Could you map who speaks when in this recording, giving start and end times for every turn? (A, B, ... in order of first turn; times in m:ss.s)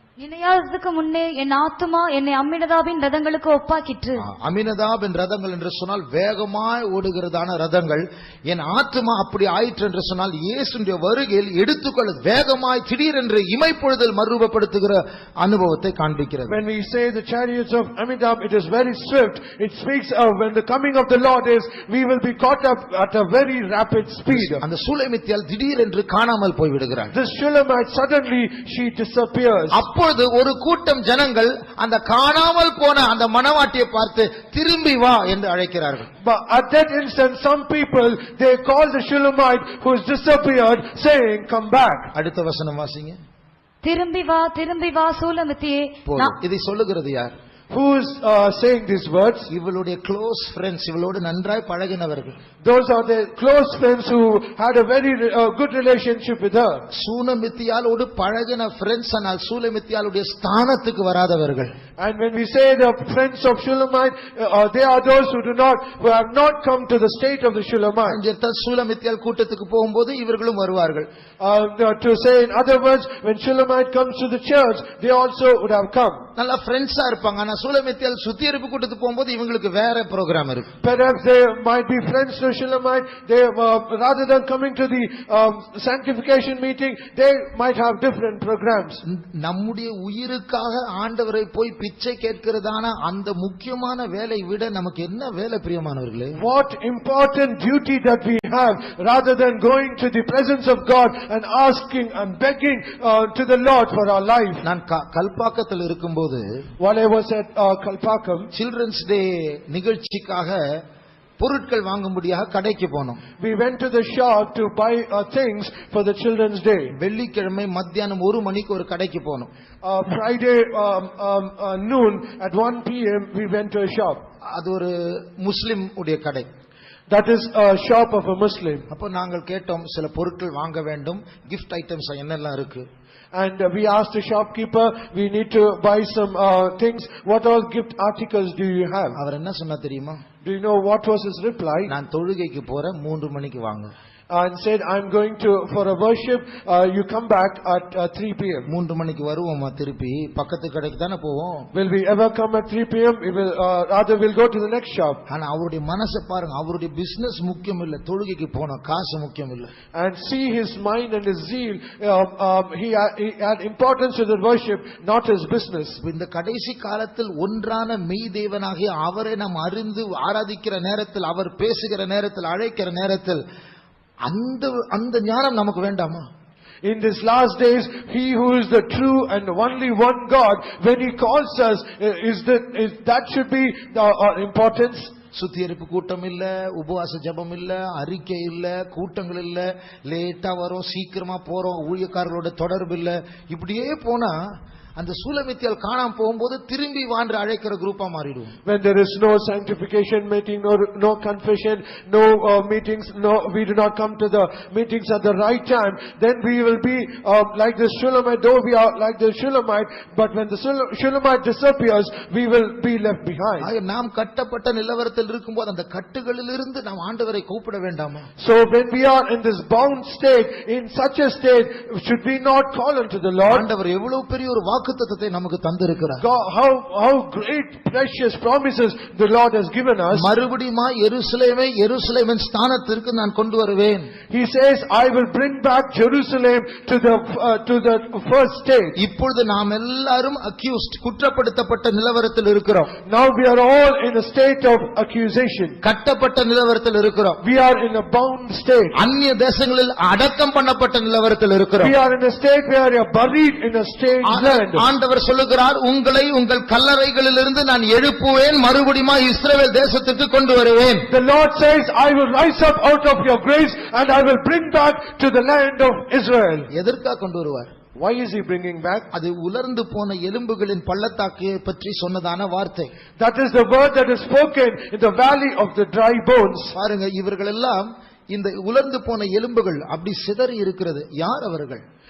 0:00.2-0:04.3 A
0:04.2-0:16.6 B
0:16.5-0:24.6 C
0:24.3-0:27.1 B
0:27.1-0:29.8 C
0:29.7-0:36.1 B
0:36.2-0:42.1 C
0:42.1-0:43.2 B
0:43.8-0:46.3 A
0:46.0-0:47.3 B
0:47.7-0:49.5 C
0:49.5-0:52.4 B
0:52.6-0:56.9 C
0:56.9-1:01.7 B
1:02.0-1:08.2 C
1:08.1-1:11.1 B
1:11.4-1:16.2 C
1:16.4-1:20.7 B
1:20.8-1:29.0 C
1:29.0-1:36.4 B
1:36.3-1:44.6 C
1:44.6-1:46.6 B
1:46.8-1:48.5 C
1:48.5-1:50.8 B
1:51.4-1:53.2 B
1:53.4-1:56.9 C
1:57.0-1:59.5 B
1:59.8-2:04.2 C
2:04.4-2:06.5 B
2:07.1-2:08.8 C
2:08.9-2:12.8 B
2:13.3-2:19.2 C
2:19.2-2:20.2 B
2:20.4-2:21.9 C
2:21.9-2:23.9 B
2:24.3-2:28.7 C
2:28.7-2:31.7 B
2:31.7-2:35.2 C
2:35.3-2:39.7 B
2:39.9-2:46.0 C
2:46.0-2:53.4 B
2:54.2-2:56.3 B
2:56.8-3:05.1 C
3:05.3-3:18.5 B
3:18.6-3:33.7 C
3:33.6-3:38.3 B
3:38.4-3:43.7 C
3:43.5-3:46.2 B
3:46.2-3:50.3 C
3:50.1-3:54.1 B
3:54.3-3:59.0 C
3:59.0-4:02.9 B
4:03.0-4:05.8 C
4:05.8-4:07.4 B
4:07.4-4:09.0 C
4:09.0-4:11.9 B
4:11.8-4:14.8 C
4:14.2-4:21.1 B
4:21.1-4:26.7 C
4:26.7-4:27.7 B
4:27.9-4:29.1 C
4:29.1-4:32.9 B
4:33.2-4:36.7 C
4:36.7-4:41.8 B